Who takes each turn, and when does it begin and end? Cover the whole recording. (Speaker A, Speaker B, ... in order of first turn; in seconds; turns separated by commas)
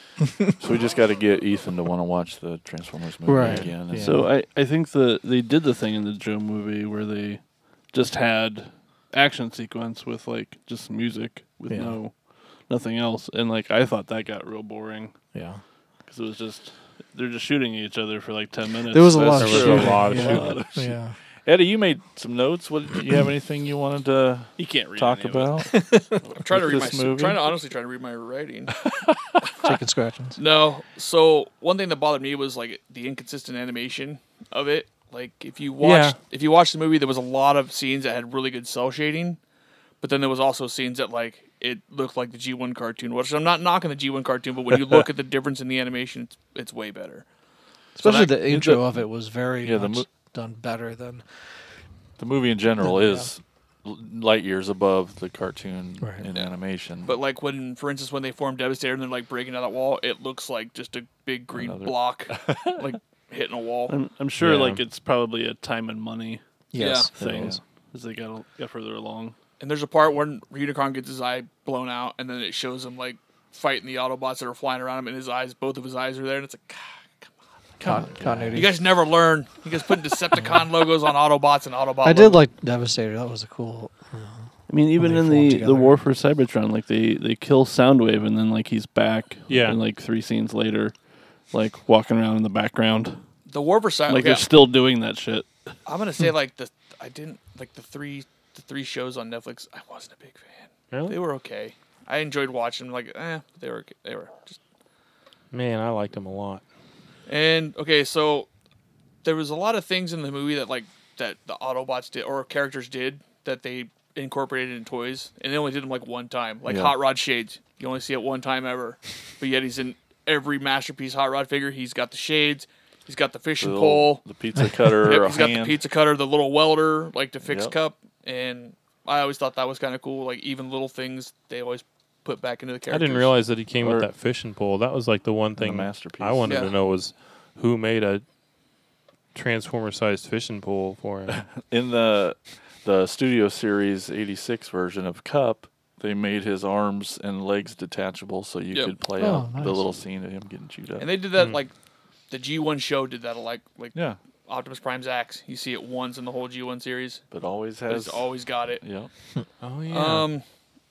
Speaker A: 0.6-4.2, Speaker B: 3.2-4.3, Speaker C: 3.9-15.2, Speaker B: 11.7-12.0, Speaker B: 15.3-15.6, Speaker C: 16.1-20.9, Speaker B: 18.9-21.1, Speaker D: 19.4-20.5, Speaker A: 19.9-20.5, Speaker A: 21.4-25.7, Speaker C: 24.6-25.7, Speaker B: 25.7-26.2, Speaker E: 26.4-28.7, Speaker A: 26.4-27.5, Speaker A: 28.9-29.2, Speaker B: 29.6-30.4, Speaker E: 30.4-39.4, Speaker D: 35.8-36.2, Speaker E: 40.0-47.3, Speaker B: 48.0-51.2, Speaker C: 48.0-48.6, Speaker A: 48.2-48.8, Speaker A: 49.6-50.1, Speaker A: 52.2-57.1, Speaker B: 52.8-53.3, Speaker E: 57.0-63.9, Speaker A: 61.5-62.8, Speaker C: 63.9-69.3, Speaker A: 64.4-64.8, Speaker B: 66.7-67.6, Speaker E: 66.8-67.1, Speaker A: 67.2-67.6, Speaker E: 69.6-77.3, Speaker A: 77.8-78.7, Speaker B: 77.8-78.7, Speaker E: 78.5-82.4, Speaker B: 82.0-86.0, Speaker C: 84.7-91.0, Speaker D: 89.5-89.8, Speaker C: 91.5-93.2, Speaker E: 93.5-94.5, Speaker C: 94.1-95.5, Speaker E: 95.9-104.6, Speaker D: 100.9-101.2, Speaker D: 105.5-106.6, Speaker E: 107.3-108.5, Speaker E: 109.2-124.2, Speaker A: 116.7-116.9, Speaker A: 123.6-125.8, Speaker E: 125.0-133.3, Speaker A: 127.5-127.7, Speaker D: 132.9-138.2, Speaker A: 135.6-136.5, Speaker E: 136.5-136.8, Speaker D: 139.3-141.4, Speaker A: 141.4-151.1, Speaker B: 149.2-149.9, Speaker E: 151.0-151.7, Speaker E: 152.3-157.2, Speaker A: 157.3-159.1, Speaker E: 157.9-158.8, Speaker D: 159.6-160.3, Speaker E: 159.9-160.4